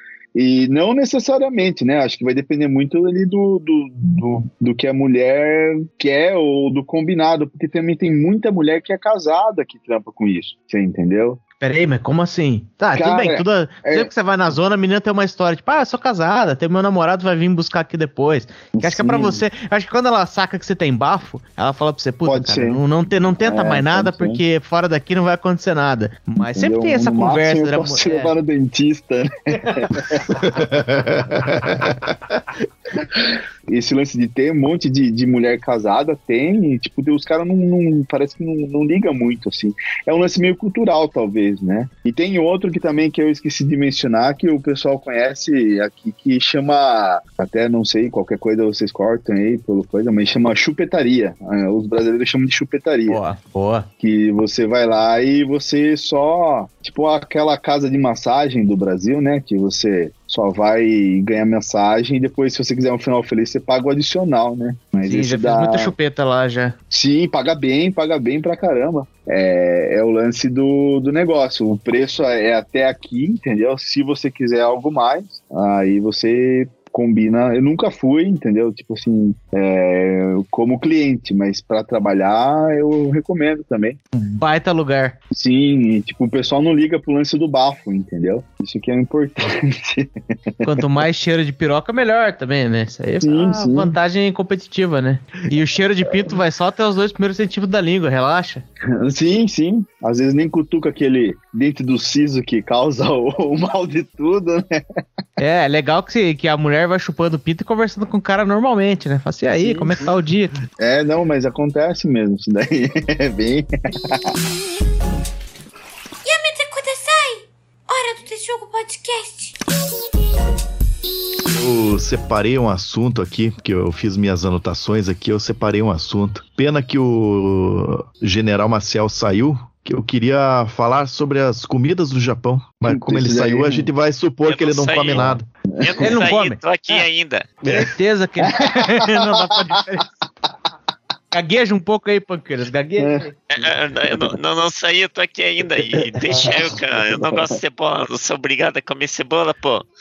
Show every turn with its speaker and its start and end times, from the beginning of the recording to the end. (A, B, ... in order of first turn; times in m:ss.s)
0:00.4-0:11.4 A
0:11.6-0:28.3 B
0:13.0-0:14.1 A
0:18.8-0:19.4 A
0:22.3-0:22.8 A
0:23.4-0:24.4 A
0:26.4-0:30.4 A
0:30.3-0:32.4 C
0:33.0-0:53.2 A
0:53.1-0:53.9 B
0:54.0-1:05.9 A
1:05.0-1:06.8 B
1:06.9-1:24.0 A
1:24.1-1:25.2 B
1:25.3-1:30.1 A
1:30.6-1:38.6 B
1:33.2-1:34.0 A
1:39.0-1:44.8 A
1:45.4-1:50.6 B
1:49.6-1:50.0 A
1:50.8-1:54.3 A
1:56.2-1:59.7 D
2:01.5-2:15.5 C
2:12.9-2:13.9 A
2:14.4-2:17.6 E
2:15.7-2:16.2 A
2:16.0-2:17.0 B
2:17.6-2:20.1 B
2:18.6-2:19.2 A
2:21.3-2:23.4 B
2:23.0-2:23.3 A
2:23.5-2:29.9 E
2:26.0-2:27.6 A